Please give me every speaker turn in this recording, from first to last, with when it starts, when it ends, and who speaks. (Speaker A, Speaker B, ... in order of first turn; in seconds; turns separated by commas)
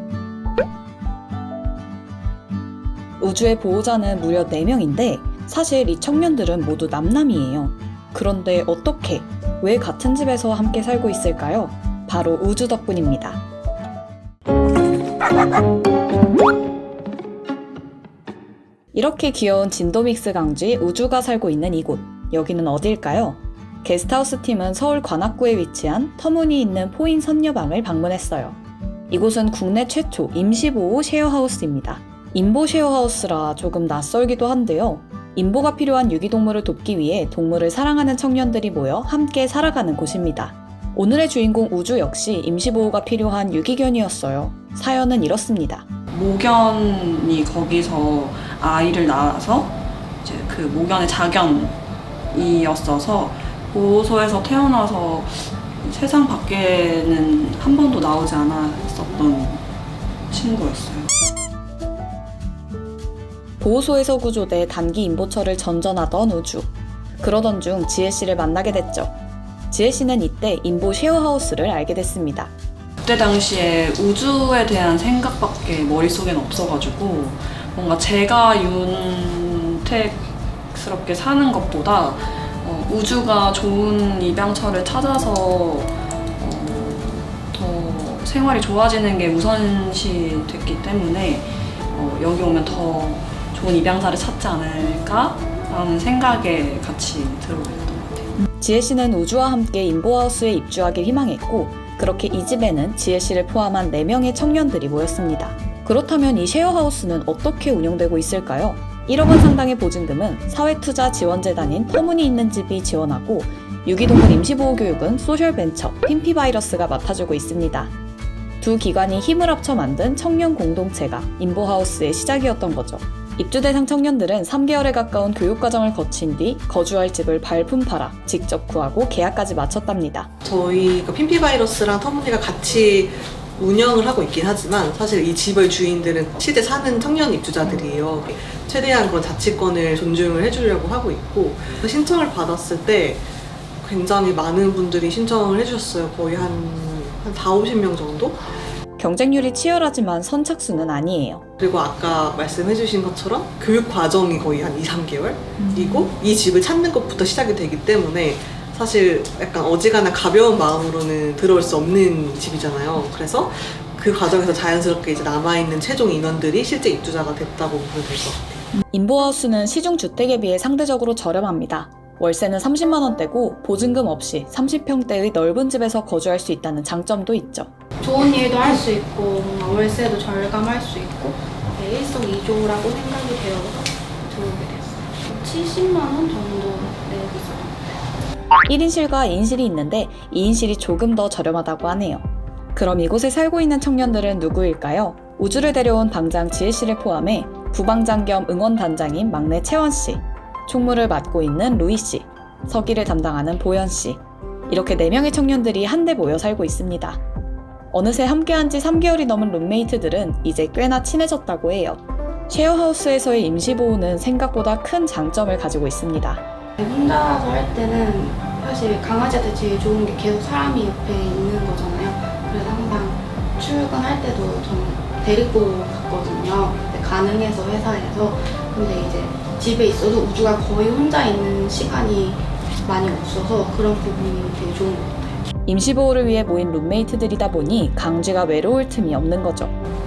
Speaker A: 3.2-13.4, Speaker A: 18.9-28.6, Speaker A: 29.1-45.9, Speaker B: 46.1-51.8, Speaker B: 52.3-59.6, Speaker B: 60.3-61.1, Speaker A: 63.6-69.1, Speaker A: 69.7-72.5, Speaker B: 73.0-98.4, Speaker A: 98.6-117.9, Speaker A: 118.6-130.3, Speaker C: 130.4-143.3, Speaker C: 143.8-148.4, Speaker A: 149.0-151.4, Speaker C: 151.6-168.6, Speaker A: 168.9-177.7, Speaker D: 178.0-187.9, Speaker A: 188.7-207.2, Speaker A: 207.9-216.4, Speaker D: 216.8-235.4, Speaker A: 235.7-239.7